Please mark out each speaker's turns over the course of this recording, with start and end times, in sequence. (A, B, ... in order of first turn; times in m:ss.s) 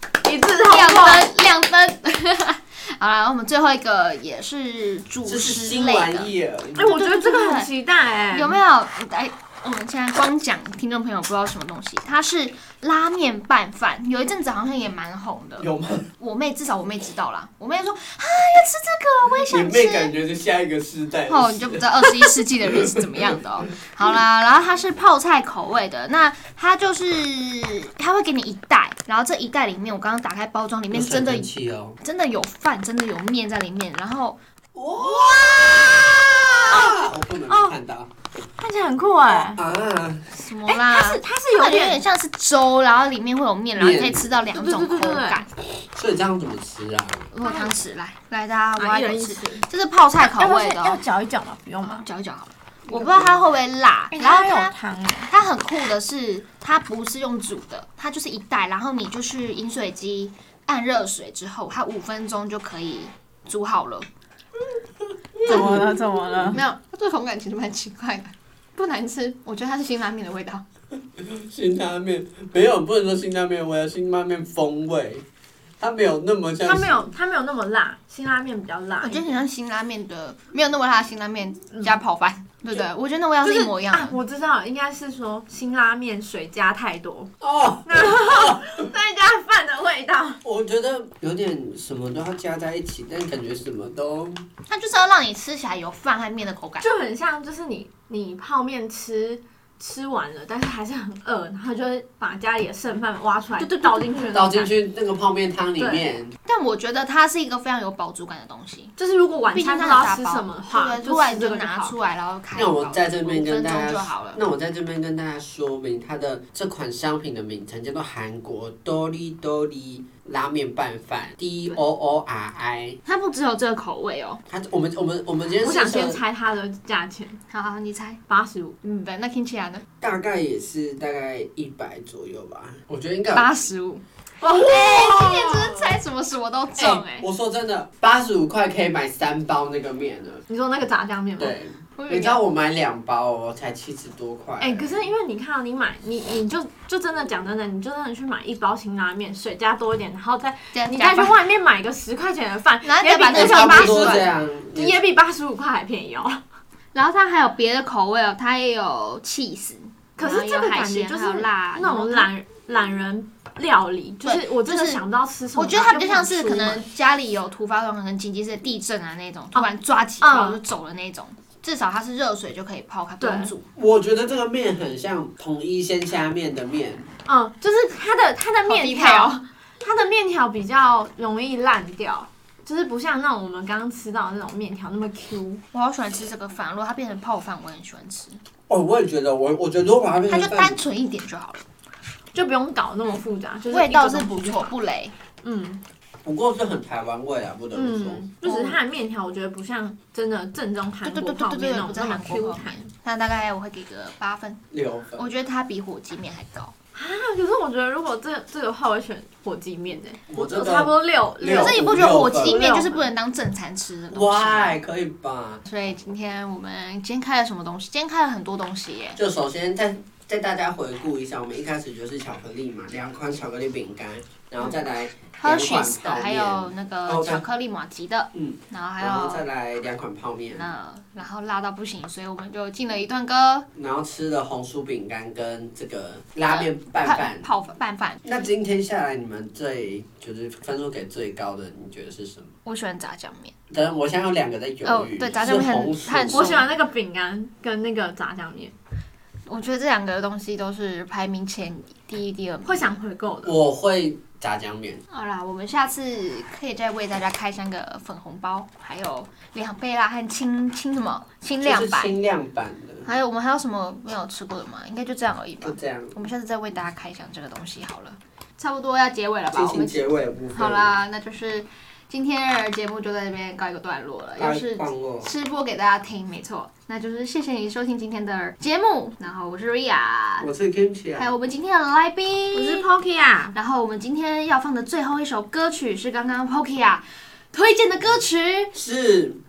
0:00.2-0:01.3 A
0:00.6-0:07.7 B
0:05.3-0:06.9 C
0:06.8-0:08.6 A
0:08.3-0:15.7 B
0:15.6-0:16.1 C
0:16.2-0:20.1 B
0:19.5-0:23.4 C
0:21.3-0:31.5 B
0:30.9-0:32.0 C
0:32.0-0:34.4 B
0:34.8-0:38.1 C
0:36.5-0:37.8 A
0:38.6-0:39.6 A
0:39.6-0:40.4 C
0:40.3-0:45.5 B
0:40.7-0:42.0 A
0:43.8-0:44.3 C
0:44.5-0:45.4 A
0:45.9-0:47.3 C
0:47.3-0:51.0 B
0:47.4-0:47.7 A
0:48.8-0:49.7 A
0:50.2-0:52.1 A
0:51.8-0:54.8 B
0:52.9-0:53.4 C
0:54.1-0:55.3 A
0:55.3-1:04.1 B
1:05.4-1:06.6 C
1:05.4-1:06.6 A
1:06.5-1:10.6 B
1:11.2-1:15.2 C
1:15.8-1:17.1 C
1:16.6-1:19.4 A
1:19.0-1:24.2 B
1:23.4-1:27.3 A
1:27.4-1:28.9 C
1:27.9-1:30.4 A
1:30.4-1:34.5 C
1:34.7-1:36.9 B
1:36.8-1:44.7 A
1:44.3-1:46.4 C
1:45.8-1:46.1 A
1:46.4-1:48.9 B
1:49.0-1:51.9 A
1:49.5-1:54.4 B
1:52.6-2:03.0 C
2:03.0-2:04.4 B
2:04.5-2:06.2 C
2:05.6-2:07.4 A
2:07.5-2:08.2 B
2:08.3-2:08.8 A
2:08.8-2:09.8 B
2:10.0-2:13.5 C
2:13.3-2:17.3 B
2:14.4-2:15.9 C
2:16.8-2:20.4 C
2:20.5-2:21.6 A
2:21.4-2:25.1 C
2:22.0-2:22.4 B
2:24.6-2:36.4 A
2:30.7-2:31.4 B
2:32.8-2:34.3 B
2:33.3-2:35.0 C
2:36.9-2:42.3 B
2:40.2-2:46.9 A
2:44.2-2:45.0 B
2:45.6-2:53.7 B
2:50.2-2:50.6 A
2:53.2-2:53.5 A
2:53.8-2:57.1 C
2:57.3-3:05.6 A
2:58.6-2:59.4 B
3:05.7-3:08.4 B
3:08.7-3:10.8 C
3:10.3-3:11.6 B
3:12.3-3:14.7 A
3:13.7-3:15.2 B
3:15.4-3:15.8 A
3:16.2-3:18.2 C
3:17.7-3:22.9 A
3:18.4-3:18.8 B
3:21.0-3:24.6 B
3:24.7-3:25.2 C
3:25.2-3:26.7 B
3:27.0-3:33.1 A
3:30.3-3:32.7 C
3:31.5-3:34.8 B
3:34.1-3:35.6 C
3:35.6-3:39.2 B
3:39.2-3:47.4 C
3:45.4-3:49.4 B
3:48.3-3:50.7 C
3:50.5-3:53.7 B
3:53.7-3:57.5 C
3:56.4-3:58.2 B
3:58.2-4:02.5 C
4:02.6-4:03.5 B
4:03.7-4:06.6 C
4:04.8-4:06.7 B
4:06.3-4:08.7 A
4:09.5-4:13.0 B
4:12.6-4:13.6 A
4:13.4-4:15.0 C
4:15.1-4:22.2 B
4:21.6-4:23.1 C
4:23.0-4:40.5 B
4:25.6-4:26.2 C
4:29.5-4:31.0 C
4:34.4-4:35.3 C
4:40.4-4:41.3 C
4:41.2-4:42.9 B
4:42.5-4:43.6 A
4:43.5-4:48.7 B
4:48.7-4:49.4 C